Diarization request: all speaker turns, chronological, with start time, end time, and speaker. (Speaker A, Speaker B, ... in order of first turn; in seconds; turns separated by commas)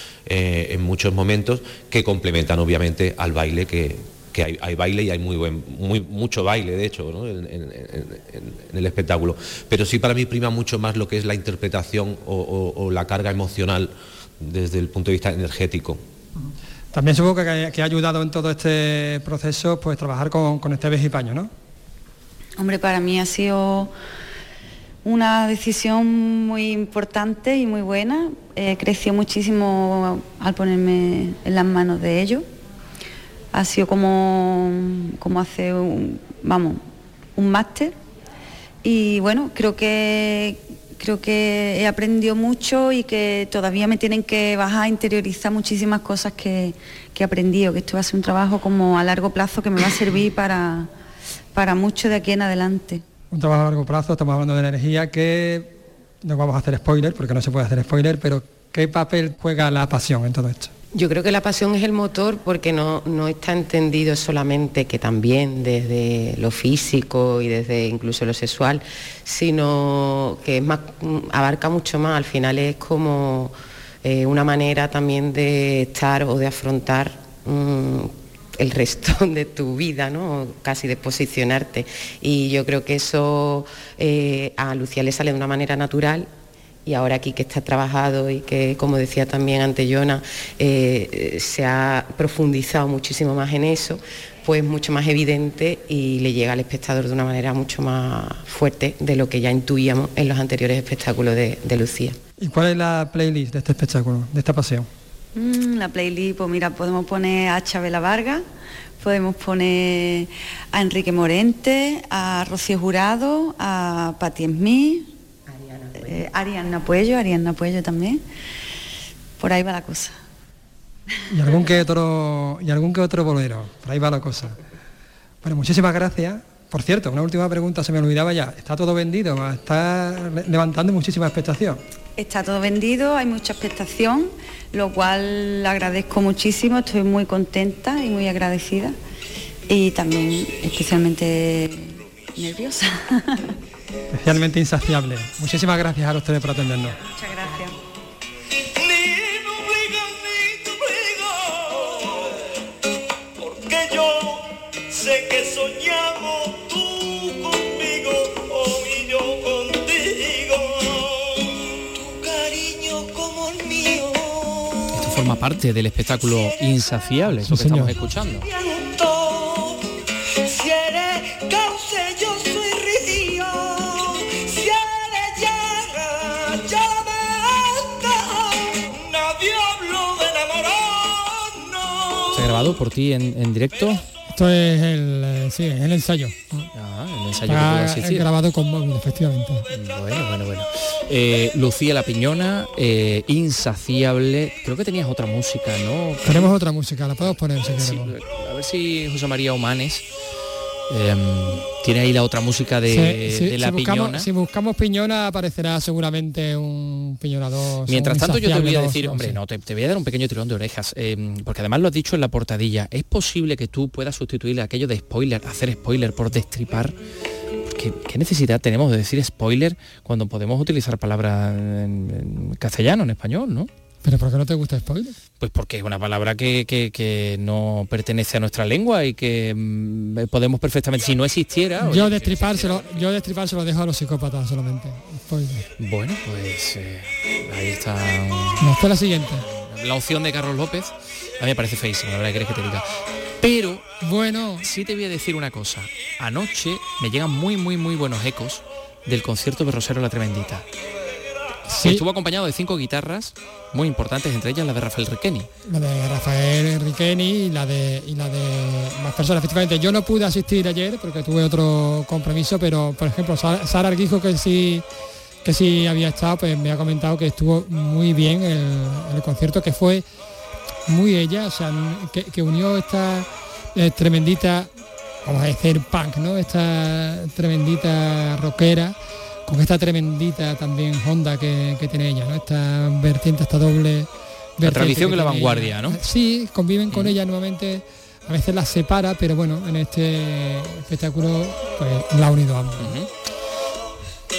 Speaker A: 0.3-16.0, Speaker B: 16.4-21.5, Speaker C: 22.6-23.9, Speaker C: 25.0-32.5, Speaker C: 33.5-36.8, Speaker C: 37.4-38.0, Speaker C: 38.8-50.9, Speaker C: 51.5-53.0, Speaker B: 53.3-60.7, Speaker D: 60.9-86.3, Speaker D: 86.9-102.2, Speaker B: 102.4-104.9, Speaker C: 105.3-108.4, Speaker C: 109.0-115.1, Speaker D: 115.5-116.2, Speaker C: 116.0-118.2, Speaker C: 119.4-120.2, Speaker B: 121.3-124.6, Speaker B: 125.4-131.8, Speaker C: 132.2-139.0, Speaker C: 139.7-143.5, Speaker B: 144.1-147.0, Speaker C: 147.1-147.8, Speaker E: 148.8-152.5, Speaker E: 153.4-164.9, Speaker F: 164.9-168.5, Speaker B: 167.4-167.9, Speaker E: 168.5-169.8, Speaker E: 170.4-182.4, Speaker F: 182.3-184.0, Speaker B: 184.3-186.7, Speaker F: 186.7-188.3, Speaker B: 187.5-189.7, Speaker F: 189.7-196.5, Speaker B: 196.2-198.1, Speaker F: 197.2-200.1, Speaker F: 200.9-204.3, Speaker B: 202.9-209.4, Speaker F: 207.9-216.9, Speaker F: 217.7-223.7, Speaker B: 224.0-225.2, Speaker F: 225.4-233.1, Speaker B: 231.8-235.7, Speaker F: 235.8-242.9, Speaker B: 238.6-239.4, Speaker F: 243.4-243.8, Speaker B: 244.0-244.7, Speaker F: 244.6-250.7, Speaker B: 251.7-252.1, Speaker F: 251.8-255.5, Speaker B: 255.7-264.8, Speaker B: 265.4-270.0, Speaker B: 270.9-274.7, Speaker B: 275.2-293.0, Speaker F: 284.6-286.0, Speaker F: 286.9-287.2, Speaker F: 292.8-293.1